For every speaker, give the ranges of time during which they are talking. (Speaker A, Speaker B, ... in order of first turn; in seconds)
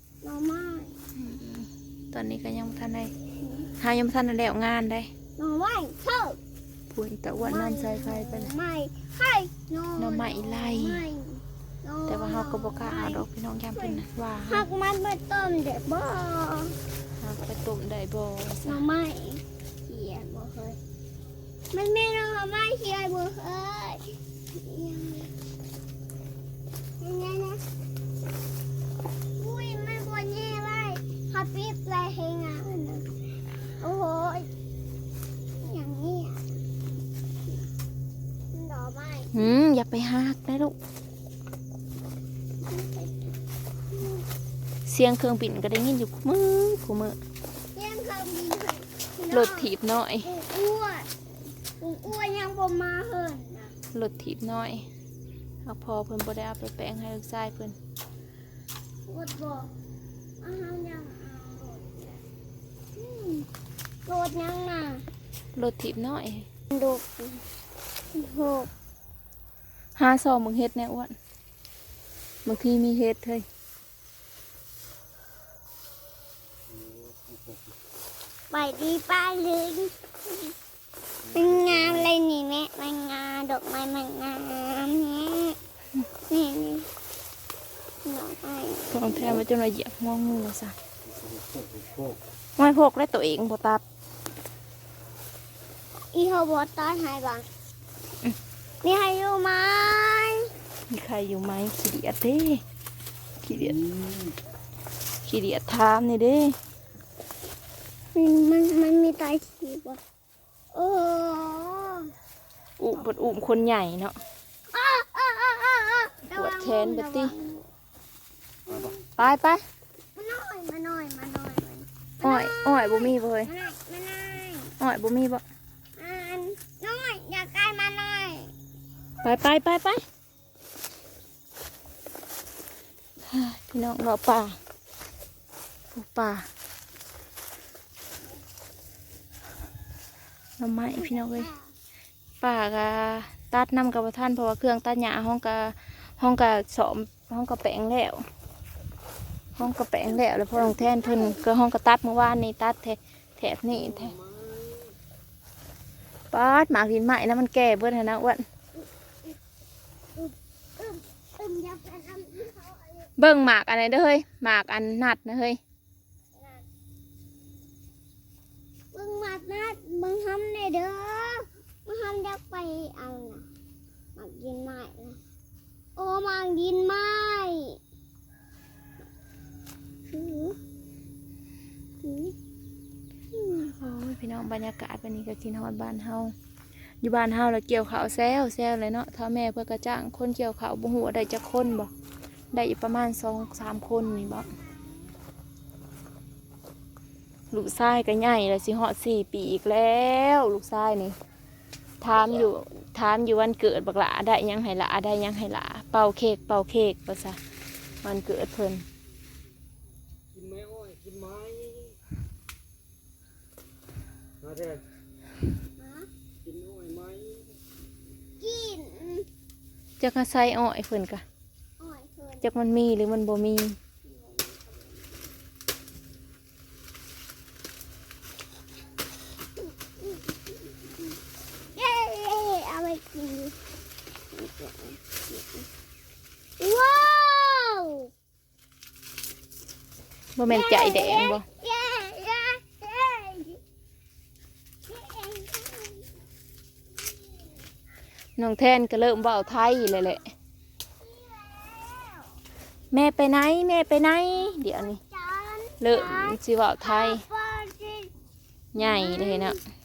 Speaker A: 0.2-1.0, 3.4-3.7, 5.4-6.4, 7.4-16.8, 18.6-20.8, 21.7-25.3, 27.0-27.6, 29.4-33.1, 33.8-34.5, 35.6-36.6, 38.5-39.5, 42.6-43.4, 43.9-44.2, 47.7-51.1, 51.8-53.8, 59.1-59.7, 60.4-62.2, 63.0-63.5, 64.1-65.0, 66.7-67.4, 68.1-68.7, 78.5-80.5, 81.3-85.6, 86.3-86.9, 88.0-89.2, 96.1-97.5, 98.8-100.5, 108.1-110.0, 110.7-112.1, 114.7-117.7, 118.7-119.1, 120.2-124.8, 126.0-128.5, 140.8-141.7, 150.6-151.4, 160.2-163.1, 166.3-166.6, 168.9-173.5, 174.2-175.2, 176.0-177.8, 180.1-180.6, 182.0-182.3, 183.3-183.7, 193.8-195.1, 215.8-216.1, 218.4-219.3, 221.8-222.5, 224.0-225.3, 229.6-230.9, 231.8-233.6, 234.3-235.7, 236.6-238.1, 240.5-243.6, 244.9-246.1, 247.1-247.5, 251.0-252.4, 254.8-258.1, 258.8-259.6
Speaker B: 1.1-3.1, 3.8-5.1, 6.9-8.5, 10.0-11.0, 12.1-14.7, 17.2-18.8, 39.3-40.8, 44.9-47.2, 49.3-50.3, 53.9-54.9, 55.7-57.8, 65.6-66.5, 70.0-71.2, 72.5-73.5, 88.9-90.7, 92.6-93.8, 100.9-102.6, 103.4-103.9, 105.2-106.6, 112.8-114.2, 116.3-117.3, 119.2-119.6, 122.2-123.5, 124.8-125.4, 129.2-130.0, 133.3-134.6, 135.9-136.5, 140.6-141.5, 142.4-148.2, 149.6-154.2, 156.3-158.4, 163.2-165.6, 183.8-186.3, 187.0-191.9, 192.5-194.5, 197.5-201.2, 202.0-207.4, 208.0-208.8, 220.0-221.2, 222.4-223.8, 240.4-241.4, 248.4-250.3, 252.9-255.0, 255.8-257.2, 258.7-259.6
Speaker C: 76.8-77.4, 91.6-92.0, 210.3-211.9, 214.4-214.8, 216.4-217.4